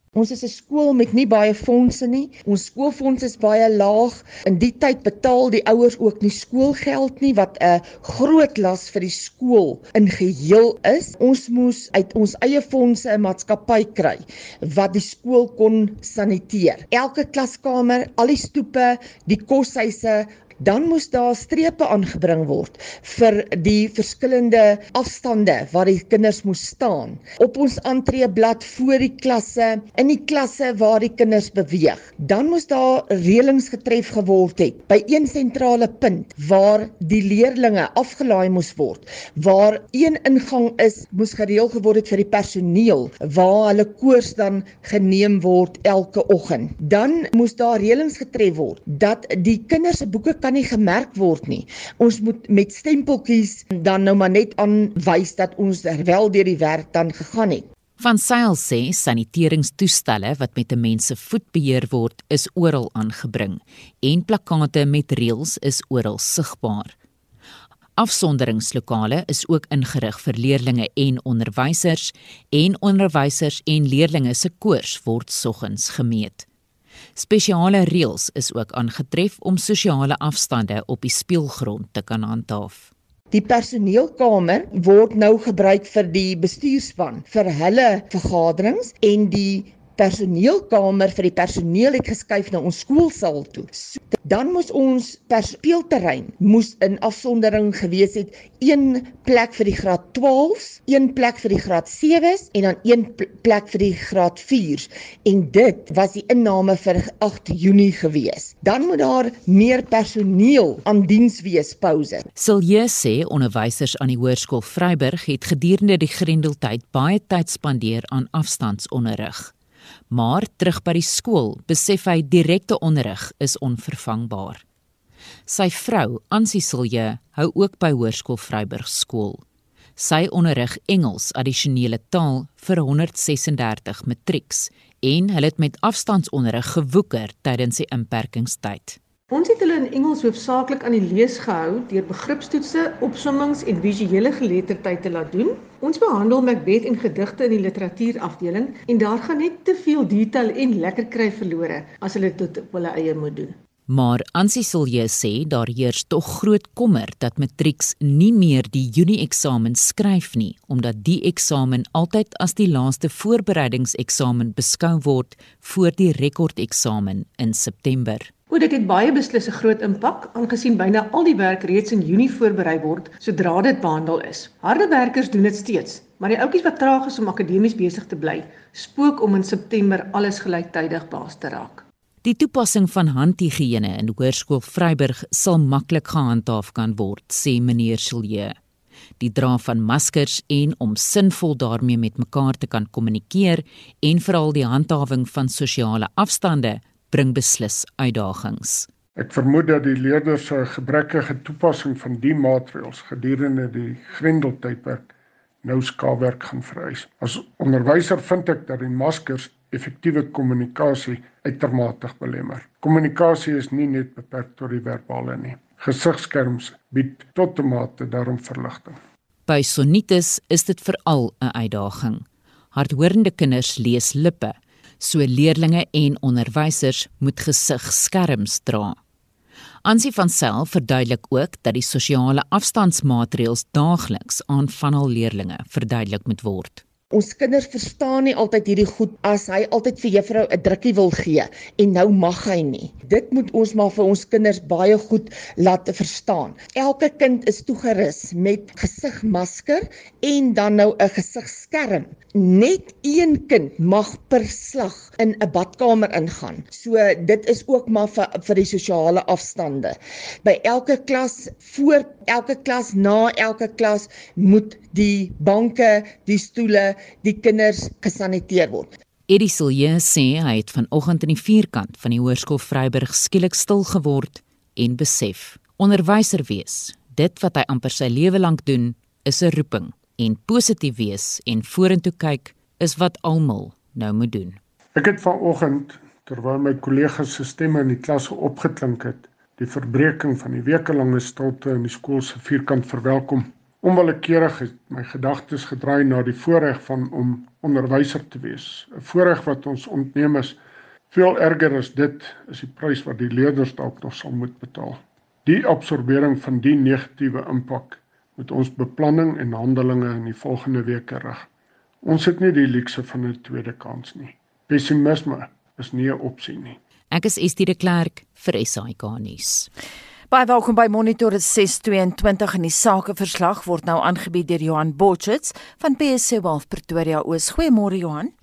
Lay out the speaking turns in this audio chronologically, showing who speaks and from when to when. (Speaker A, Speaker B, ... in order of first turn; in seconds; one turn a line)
Speaker A: 0.1-57.6
Speaker B: 58.0-66.9
Speaker B: 68.0-76.5
Speaker B: 77.2-82.9
Speaker A: 83.3-112.3
Speaker B: 112.3-119.5
Speaker B: 120.1-124.6
Speaker B: 125.5-129.4
Speaker B: 130.0-139.0
Speaker C: 139.3-153.5
Speaker B: 153.9-168.3
Speaker C: 168.5-181.8
Speaker B: 182.2-188.5
Speaker B: 189.2-198.9
Speaker D: 199.2-205.1
Speaker D: 205.6-219.0
Speaker B: 219.5-229.0
Speaker B: 229.8-236.8
Speaker A: 237.1-268.9
Speaker B: 269.3-284.6
Speaker D: 284.9-300.6
Speaker D: 301.1-311.5
Speaker D: 312.0-316.8
Speaker B: 317.1-319.7
Speaker E: 320.3-328.3